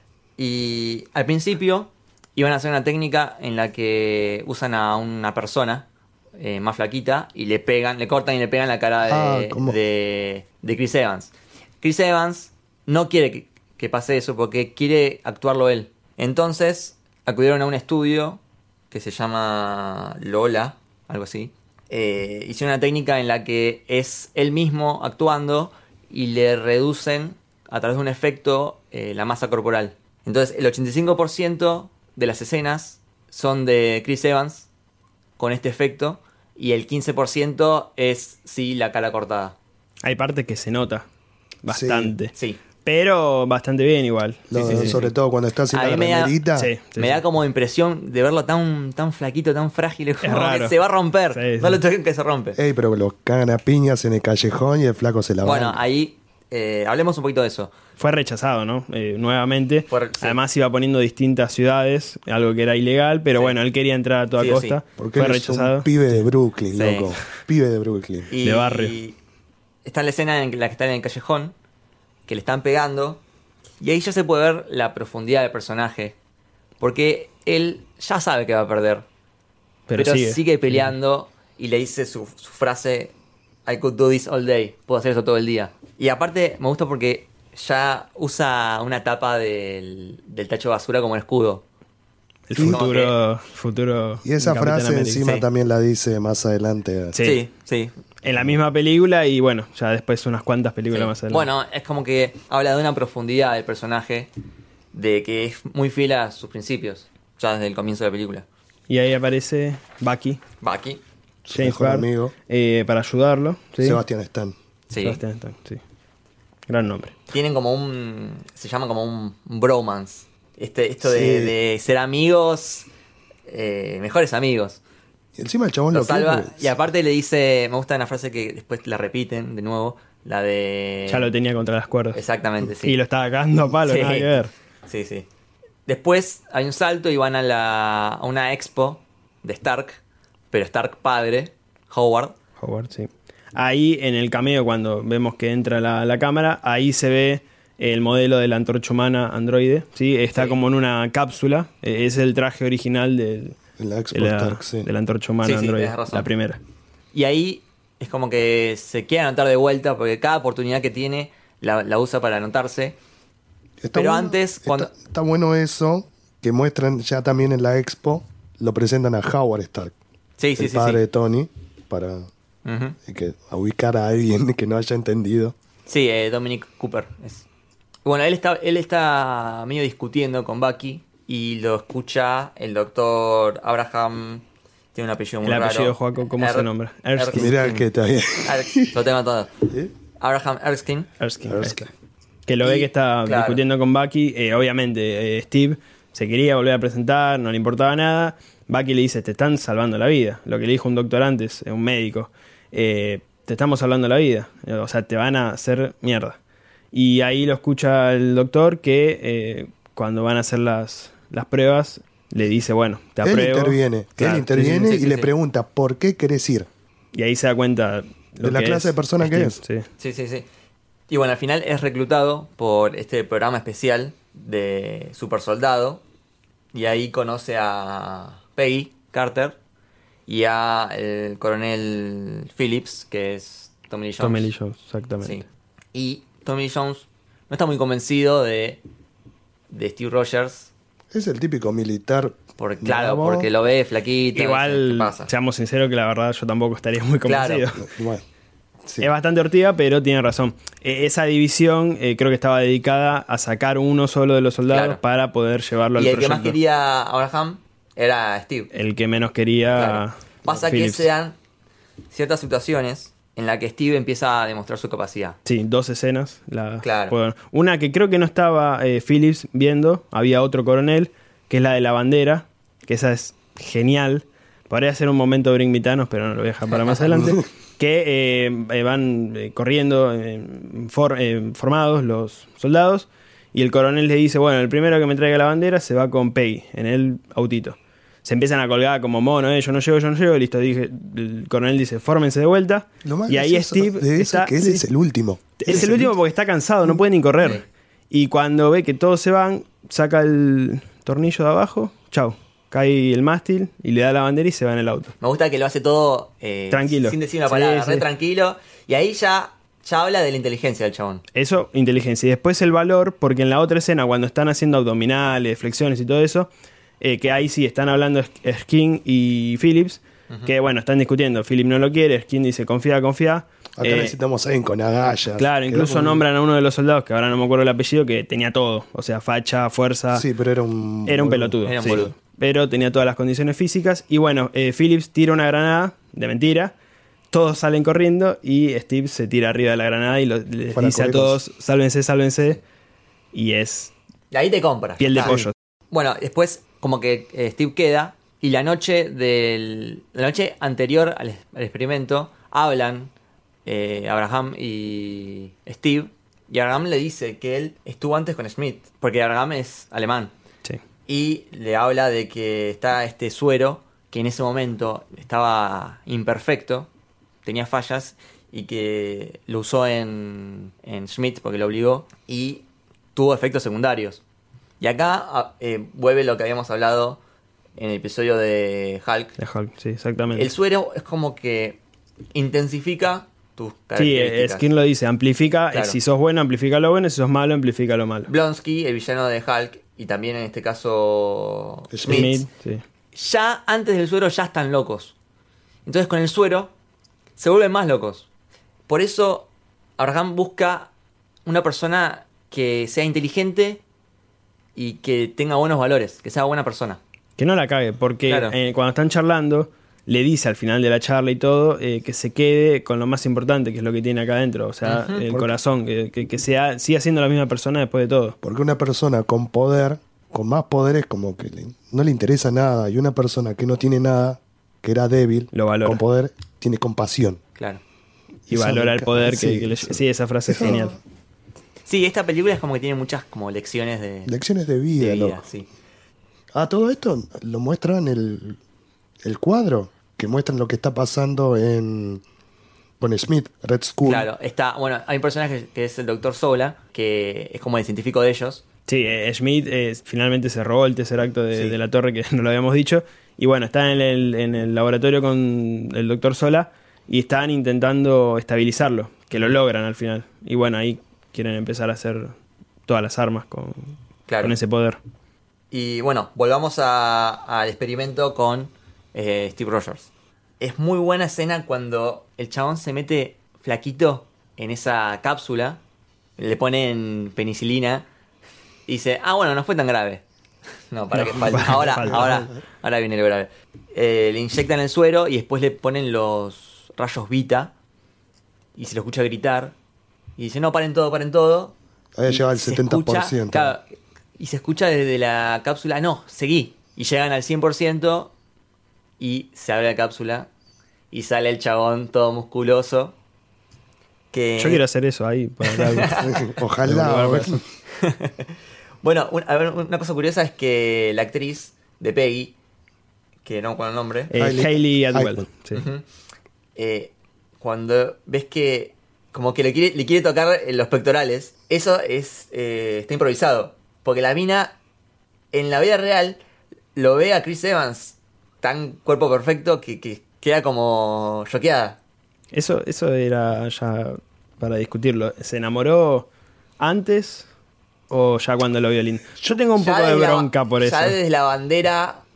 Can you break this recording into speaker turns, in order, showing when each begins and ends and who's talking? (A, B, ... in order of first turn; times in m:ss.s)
0:00.4-0:18.4 A
0:09.0-0:09.8 B
0:18.9-0:34.7 A
0:35.4-0:39.6 A
0:40.0-0:41.1 C
0:41.6-0:45.0 C
0:41.7-0:42.1 B
0:42.3-0:42.6 A
0:44.5-0:46.7 B
0:44.5-0:45.1 A
0:45.7-0:46.4 A
0:46.6-0:47.2 C
0:47.0-0:52.6 A
0:50.2-0:50.8 C
0:51.3-0:51.8 C
0:52.6-0:55.8 B
0:55.4-0:57.7 A
0:58.0-1:06.2 C
0:59.9-1:00.4 A
1:04.4-1:04.8 A
1:05.0-1:08.3 B
1:06.7-1:07.2 A
1:08.3-1:09.2 A
1:08.4-1:09.0 C
1:09.8-1:11.5 A
1:12.3-1:13.2 A
1:13.8-1:16.2 A
1:16.8-1:19.0 A
1:19.9-1:20.9 C
1:20.0-1:23.1 A
1:23.6-1:31.6 A
1:32.5-1:35.2 C
1:32.5-1:32.8 B
1:32.6-1:33.2 A
1:34.2-1:37.2 B
1:37.1-1:37.4 C
1:37.2-1:37.9 A
1:38.2-1:41.5 C
1:40.9-1:44.3 A
1:44.9-1:48.4 A
1:48.9-1:50.4 C
1:50.6-1:51.0 A
1:51.4-1:52.3 B
1:51.5-1:54.0 C
1:53.8-1:54.6 B
1:54.9-1:55.2 A
1:55.0-1:55.8 C
1:56.7-1:57.1 C
1:57.3-2:02.9 A
2:01.0-2:01.5 B
2:03.5-2:04.8 A
2:05.4-2:06.7 B
2:05.9-2:11.3 A
2:11.1-2:14.5 C
2:12.1-2:13.0 A
2:13.8-2:14.3 A
2:14.8-2:15.3 A
2:15.8-2:20.0 A
2:20.5-2:22.4 A
2:22.6-2:33.6 C
2:33.8-2:34.9 B
2:34.1-2:36.6 C
2:35.4-2:36.3 A
2:37.1-2:43.0 A
2:43.8-2:49.9 B
2:43.9-2:44.9 A
2:50.4-2:51.0 A
2:50.6-2:52.3 B
2:52.6-2:53.0 A
2:53.0-2:55.5 B
2:55.9-2:57.4 A
2:58.0-3:07.8 A
3:05.4-3:07.7 C
3:07.3-3:08.9 B
3:08.4-3:09.5 A
3:10.2-3:11.1 A
3:11.2-3:11.9 C
3:11.4-3:11.9 B
3:12.4-3:26.4 C
3:12.6-3:13.6 A
3:26.9-3:34.9 C
3:33.2-3:36.7 B
3:34.7-3:35.3 A
3:37.1-3:39.9 C
3:38.4-3:39.6 B
3:40.0-3:40.5 A
3:41.1-3:46.0 A
3:46.7-3:49.6 A
3:50.3-3:54.5 A
3:54.2-3:55.4 C
3:55.2-3:58.8 A
3:59.7-4:00.7 A
4:01.1-4:03.5 B
4:02.6-4:05.3 A
4:04.3-4:07.9 C
4:07.2-4:07.6 A
4:07.8-4:08.2 B
4:09.0-4:16.6 C
4:14.7-4:15.0 A
4:16.0-4:18.7 A
4:18.7-4:21.0 C
4:19.7-4:21.4 A
4:22.1-4:25.4 A
4:25.4-4:54.8 C
4:26.8-4:27.1 A
4:36.7-4:37.0 A
4:53.0-4:56.1 B
4:55.6-5:05.1 C
5:05.2-5:11.2 A
5:06.7-5:08.0 C
5:11.3-5:16.5 C
5:17.0-5:24.1 C
5:23.8-5:26.2 B
5:25.3-5:30.2 C
5:30.1-5:32.0 B
5:31.0-5:36.7 C
5:31.6-5:32.1 A
5:37.3-5:42.6 C
5:40.7-5:41.4 B
5:43.3-5:43.9 C
5:44.3-5:45.4 A
5:45.0-5:45.5 C
5:45.2-5:45.4 B
5:45.9-5:53.1 A
5:53.6-6:00.3 A
6:01.1-6:06.9 A
6:07.4-6:14.2 A
6:14.8-6:17.2 A
6:17.8-6:19.4 A
6:19.4-6:20.5 C
6:20.3-6:21.8 A
6:22.3-6:24.6 A
6:24.0-6:28.3 C
6:25.7-6:26.0 A
6:28.3-6:32.4 A
6:31.9-6:32.3 B
6:32.0-6:32.8 C
6:33.1-6:35.1 A
6:35.8-6:36.7 A
6:37.4-6:38.3 A
6:38.9-6:40.9 A
6:41.4-6:43.8 A
6:44.7-6:47.0 A
6:47.4-6:58.4 C
6:48.2-6:48.5 A
6:54.8-6:55.2 A
6:58.4-7:07.4 B
7:05.5-7:06.0 C
7:07.6-7:07.8 A
7:08.5-7:10.9 B
7:08.5-7:11.0 C
7:11.8-7:14.3 A
7:14.3-7:15.4 B
7:15.0-7:15.7 A
7:16.5-7:18.6 B
7:19.2-7:22.2 B
7:23.0-7:24.3 B
7:24.0-7:28.6 A
7:28.9-7:42.3 C
7:42.9-7:45.0 C
7:44.3-7:44.5 A
7:45.7-7:50.1 A
7:50.6-7:55.8 A
7:56.4-7:58.0 A
7:58.9-8:00.2 A
8:00.9-8:07.7 A
8:01.1-8:02.4 C
8:02.0-8:02.5 B
8:08.8-8:09.7 A
8:10.4-8:11.7 A
8:12.2-8:13.7 B
8:12.2-8:18.3 A
8:19.2-8:20.5 A
8:21.1-8:23.2 A
8:24.3-8:24.8 A
8:24.6-8:26.2 C
8:25.6-8:26.4 A
8:26.2-8:27.6 B
8:26.8-8:27.6 C
8:27.9-8:32.5 A
8:33.4-8:34.3 A
8:34.3-8:35.8 C
8:34.4-8:35.4 B
8:35.7-8:36.0 A
8:36.8-8:44.7 A
8:45.5-8:46.4 A
8:47.0-8:52.0 A
8:52.5-8:56.3 C
8:56.8-8:57.5 C
8:58.1-9:01.2 C
8:59.8-9:02.2 A